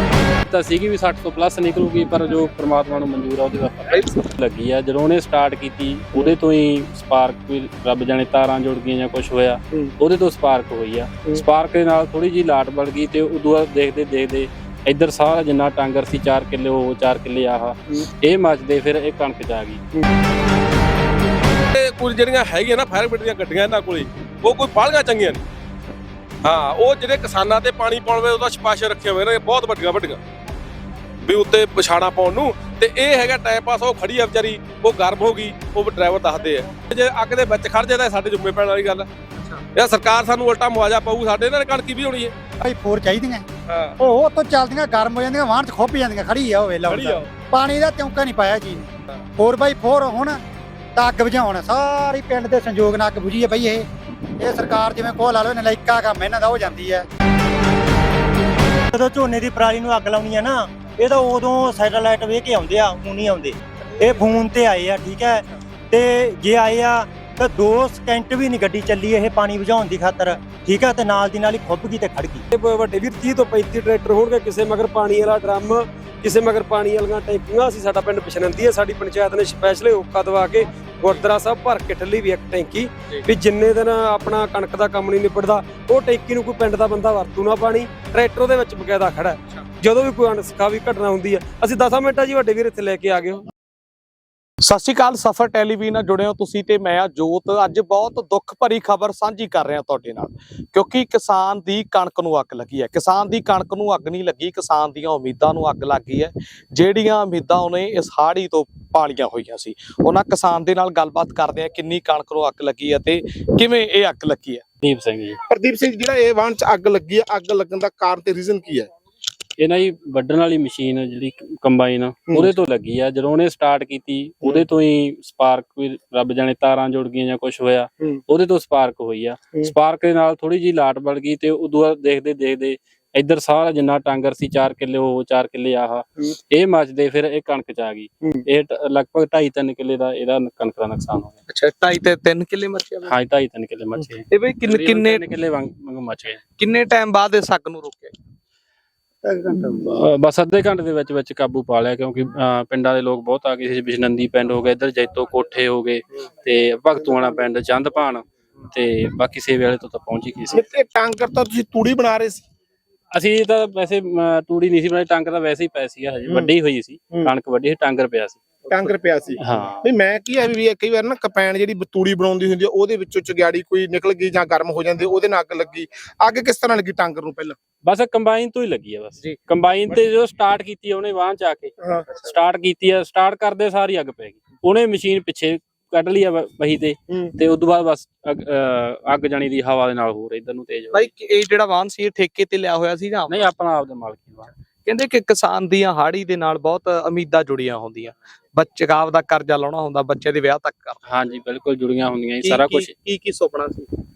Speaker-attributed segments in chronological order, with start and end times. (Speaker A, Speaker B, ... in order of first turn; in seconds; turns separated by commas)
Speaker A: 0.5-19.8, Speaker B: 3.9-4.2, Speaker C: 21.7-25.4, Speaker C: 26.4-30.2, Speaker C: 31.2-39.1, Speaker C: 39.8-42.3, Speaker D: 42.6-43.5, Speaker C: 43.7-44.0, Speaker D: 44.0-50.4, Speaker C: 46.9-47.3, Speaker D: 51.0-53.9, Speaker D: 54.4-57.1, Speaker E: 58.9-72.5, Speaker F: 72.5-93.5, Speaker B: 94.6-114.6, Speaker A: 114.8-115.4, Speaker G: 115.5-118.9, Speaker A: 119.6-141.3, Speaker B: 141.5-143.1, Speaker A: 143.1-146.4, Speaker B: 144.0-145.2, Speaker B: 146.6-148.1, Speaker A: 149.7-160.6, Speaker G: 160.5-162.4, Speaker A: 163.1-168.6, Speaker G: 166.3-166.5, Speaker G: 168.7-177.6, Speaker A: 169.4-169.9, Speaker A: 177.8-191.1, Speaker G: 181.8-182.1, Speaker B: 190.9-193.4, Speaker A: 193.3-194.5, Speaker B: 194.8-201.0, Speaker A: 201.1-202.9, Speaker B: 202.4-203.9